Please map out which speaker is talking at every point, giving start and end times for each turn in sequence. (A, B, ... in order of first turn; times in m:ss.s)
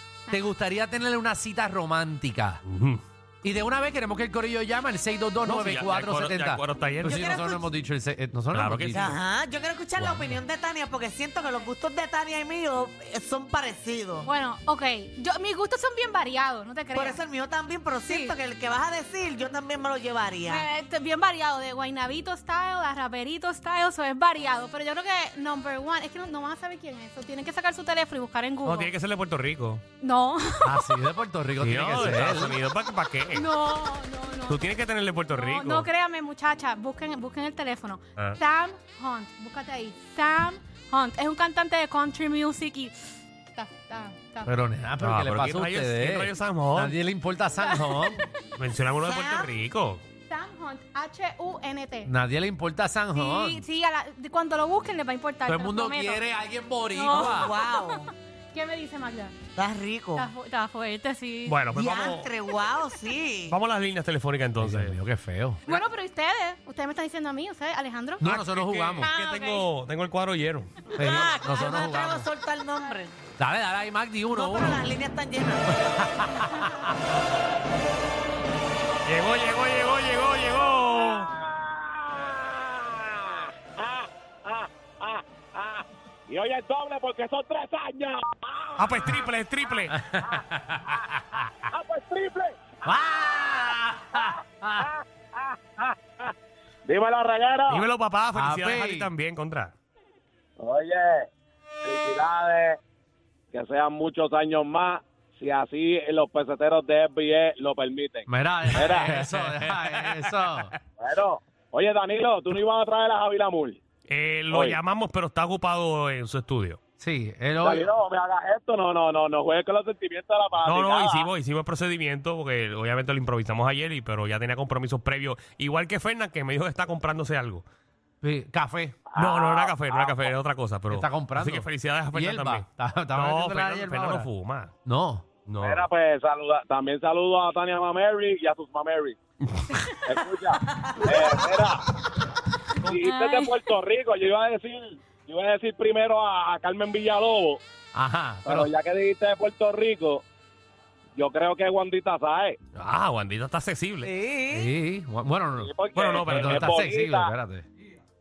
0:00.3-0:02.6 A
0:02.6-0:03.0 B
0:03.4-0:09.2 A
0:05.4-0:07.6 B
0:07.0-0:07.6 C
0:08.5-0:09.2 B
0:08.9-0:14.3 C
0:10.0-0:10.4 A
0:14.2-0:17.2 D
0:16.9-0:20.6 C
0:18.1-0:18.3 D
0:20.5-0:28.9 D
0:28.6-0:29.8 B
0:30.0-0:31.0 D
0:30.6-0:32.6 A
0:31.6-0:33.5 B
0:33.3-0:34.7 D
0:34.5-0:35.9 B
0:35.3-0:44.5 D
0:44.4-0:48.2 A
0:45.0-0:47.0 B
0:47.6-0:48.2 D
0:48.6-0:50.0 B
0:49.0-0:49.5 C
0:50.3-0:52.1 D
0:52.0-0:53.6 A
0:53.1-0:56.2 D
0:55.5-0:57.5 A
0:56.9-0:59.4 D
0:57.1-0:58.1 C
0:59.6-1:00.3 C
1:00.2-1:01.6 D
1:01.5-1:02.3 B
1:01.7-1:03.6 C
1:03.5-1:05.0 B
1:04.6-1:05.6 A
1:05.7-1:08.2 D
1:08.2-1:09.1 A
1:08.2-1:10.7 B
1:09.0-1:09.7 D
1:11.0-1:12.3 A
1:11.0-1:13.2 C
1:13.4-1:14.9 A
1:14.3-1:15.6 C
1:15.7-1:16.9 A
1:19.0-1:21.3 B
1:20.8-1:29.2 E
1:28.8-1:30.0 B
1:29.9-1:31.0 A
1:31.7-1:32.7 E
1:32.8-1:34.9 A
1:34.3-1:36.3 E
1:36.9-1:37.8 E
1:37.7-1:39.7 B
1:38.3-1:39.1 A
1:40.6-1:41.3 E
1:41.8-1:42.8 E
1:43.5-1:49.2 E
1:48.3-1:50.7 A
1:49.0-1:50.1 B
1:51.0-1:53.8 E
1:54.1-1:56.8 B
1:54.5-1:54.8 E
1:57.0-1:57.9 A
1:57.6-2:01.3 E
2:00.6-2:07.6 B
2:08.2-2:09.0 A
2:09.1-2:10.3 E
2:09.2-2:14.7 B
2:10.9-2:14.3 A
2:14.8-2:15.3 A
2:15.5-2:15.9 B
2:15.6-2:19.2 E
2:20.0-2:21.8 E
2:22.8-2:27.6 E
2:22.8-2:23.5 D
2:28.0-2:28.7 A
2:28.4-2:30.2 E
2:31.2-2:32.6 E
2:32.8-2:34.1 B
2:34.0-2:34.7 C
2:34.5-2:35.7 A
2:35.6-2:37.3 E
2:35.9-2:36.7 B
2:36.2-2:37.7 A